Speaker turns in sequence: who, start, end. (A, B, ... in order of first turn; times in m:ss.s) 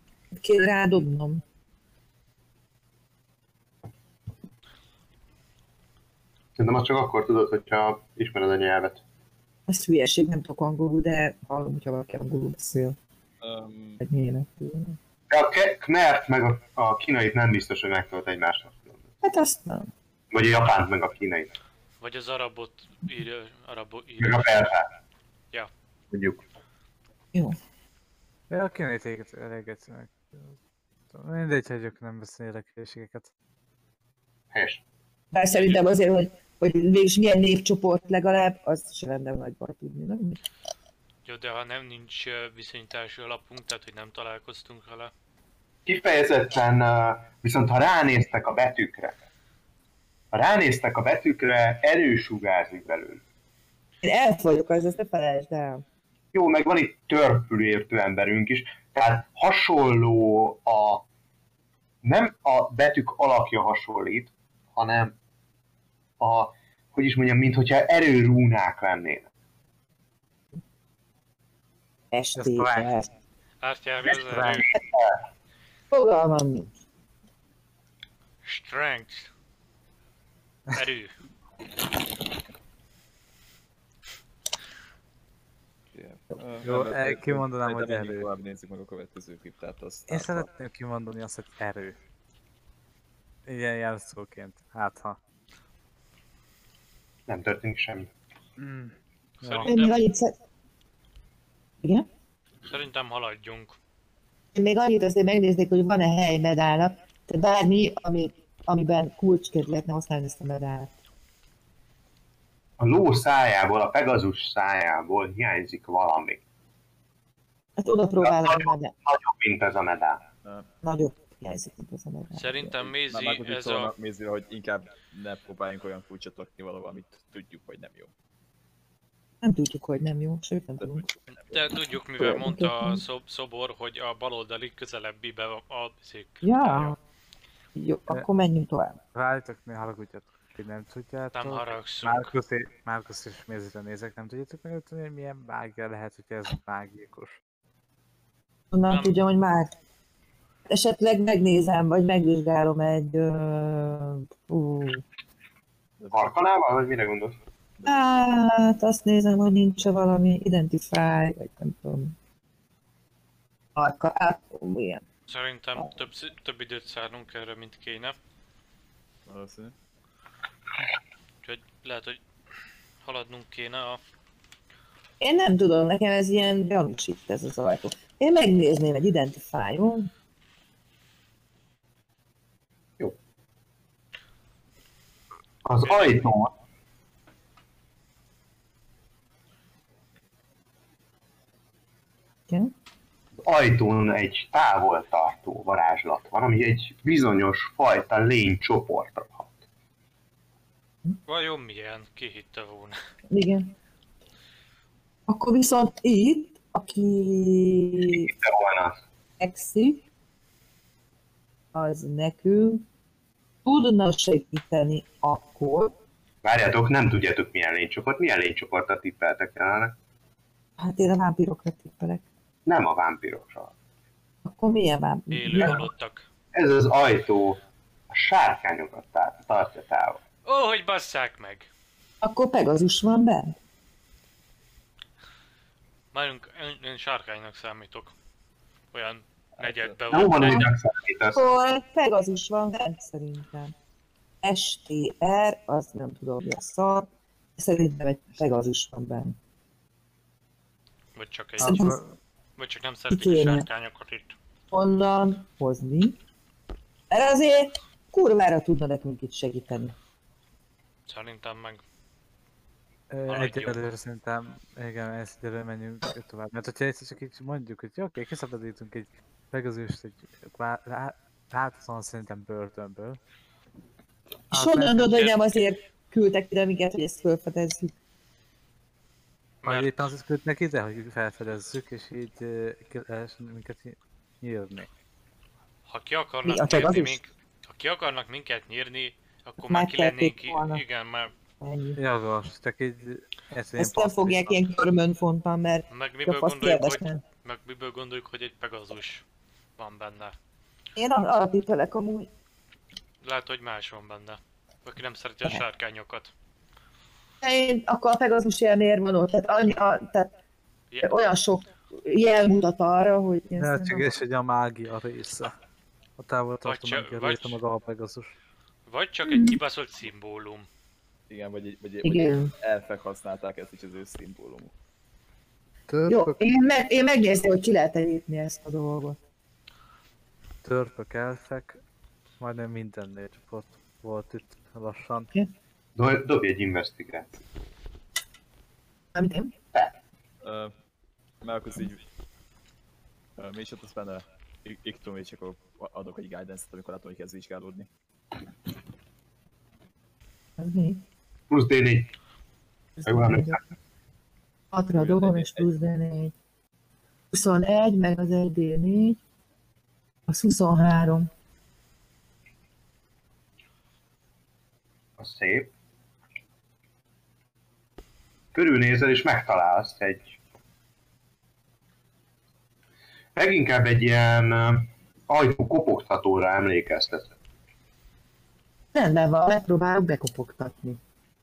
0:00.3-0:01.4 A
0:06.6-0:09.0 B
0:09.7-0:13.0 A
0:13.4-0:14.0 C
0:14.0-0:15.0 A
0:15.3-0:19.0 B
0:19.2-0:19.9 A
0:20.3-0:21.5 B
0:22.0-0:24.6 D
0:24.2-0:24.9 B
0:26.1-0:26.4 B
0:28.5-0:30.5 E
0:31.1-0:33.3 E
0:34.5-0:34.8 B
0:35.3-0:40.4 A
0:35.5-0:35.8 D
0:41.2-0:45.1 D
0:45.9-0:49.2 B
0:50.3-0:53.2 B
0:54.0-0:55.8 A
0:56.3-1:01.0 B
1:02.0-1:05.1 B
1:06.2-1:09.3 B
1:12.1-1:13.1 A
1:12.4-1:12.9 E
1:13.6-1:14.7 D
1:14.2-1:14.7 E
1:15.9-1:16.7 A
1:18.4-1:19.3 D
1:20.8-1:21.1 D
1:25.9-1:30.5 C
1:26.6-1:28.3 E
1:30.1-1:32.0 E
1:33.5-1:35.2 E
1:37.3-1:38.1 B
1:38.6-1:39.7 E
1:39.4-1:40.0 D
1:39.6-1:40.3 A
1:42.7-1:43.8 D
1:44.6-1:50.9 A
1:52.8-1:56.4 B
1:57.8-1:58.9 A
1:58.2-2:00.2 B
2:00.8-2:02.8 A
2:02.3-2:03.9 D
2:03.0-2:08.1 C
2:09.4-2:11.1 A
2:10.8-2:11.5 C
2:11.5-2:17.0 D
2:12.2-2:13.0 A
2:16.4-2:17.0 A
2:17.8-2:19.0 A
2:19.1-2:27.4 E
2:21.3-2:22.3 D
2:28.7-2:29.7 A
2:28.9-2:29.2 D
2:30.7-2:35.0 A
2:36.0-2:36.3 C
2:36.1-2:37.4 B
2:37.8-2:42.2 A
2:43.8-2:45.0 A
2:45.3-2:48.2 D
2:49.3-2:49.7 C
2:51.4-2:52.2 D
2:53.0-2:54.0 D
2:55.2-3:00.1 A
3:05.6-3:06.5 B
3:05.8-3:06.3 D
3:13.4-3:19.5 B
3:21.3-3:23.0 D
3:23.3-3:23.7 A
3:25.3-3:28.3 A
3:28.0-3:29.0 B
3:29.4-3:30.0 A
3:31.7-3:32.8 A
3:33.6-3:35.9 A
3:36.4-3:40.0 B
3:40.8-3:42.2 A
3:42.7-3:43.7 B
3:44.4-3:45.9 A
3:45.3-3:46.3 D
3:46.5-3:50.2 B
3:50.4-3:51.7 D
3:52.2-3:53.6 A
3:56.1-3:58.1 D
3:58.9-4:00.7 D
3:59.6-3:59.9 C
4:00.1-4:01.4 B
4:01.3-4:03.7 A
4:04.4-4:09.4 A
4:11.2-4:12.0 D
4:11.6-4:12.1 E
4:11.6-4:12.0 A
4:12.6-4:14.4 D
4:13.1-4:13.7 A
4:14.7-4:16.2 A
4:17.1-4:20.0 A
4:21.1-4:21.8 D
4:23.1-4:33.2 E
4:23.3-4:23.8 D
4:34.5-4:35.2 E
4:34.5-4:37.9 A
4:35.1-4:35.4 D
4:39.6-4:40.0 D
4:39.6-4:44.9 E
4:45.9-4:51.3 D
4:46.4-4:47.2 A
4:49.7-4:50.8 A
4:51.6-4:52.0 A
4:52.0-4:54.6 E
4:53.8-4:57.2 A
4:55.9-4:59.2 D
4:59.8-5:00.4 D
5:01.0-5:02.3 A
5:03.2-5:06.3 D
5:07.4-5:10.3 A
5:10.9-5:11.2 D
5:11.0-5:14.1 A
5:13.6-5:15.5 E
5:16.2-5:18.4 E
5:16.6-5:17.6 D
5:18.9-5:20.7 D
5:19.3-5:19.6 A
5:21.3-5:24.7 C
5:22.0-5:22.5 A
5:25.9-5:26.4 E
5:26.1-5:29.2 A
5:30.6-5:31.8 E
5:32.4-5:35.3 E
5:36.0-5:37.3 B
5:39.2-5:39.5 A
5:40.4-5:40.7 C
5:41.4-5:42.0 C
5:43.4-5:47.9 C
5:50.6-5:51.0 A
5:51.5-5:52.1 B
5:53.0-5:53.6 A
5:53.0-5:53.6 B
5:54.7-5:56.3 A
5:55.0-5:55.7 C
5:57.3-5:59.2 A
6:00.3-6:01.3 A
6:05.2-6:05.7 B
6:08.5-6:10.4 B
6:13.4-6:17.3 B
6:18.9-6:21.0 A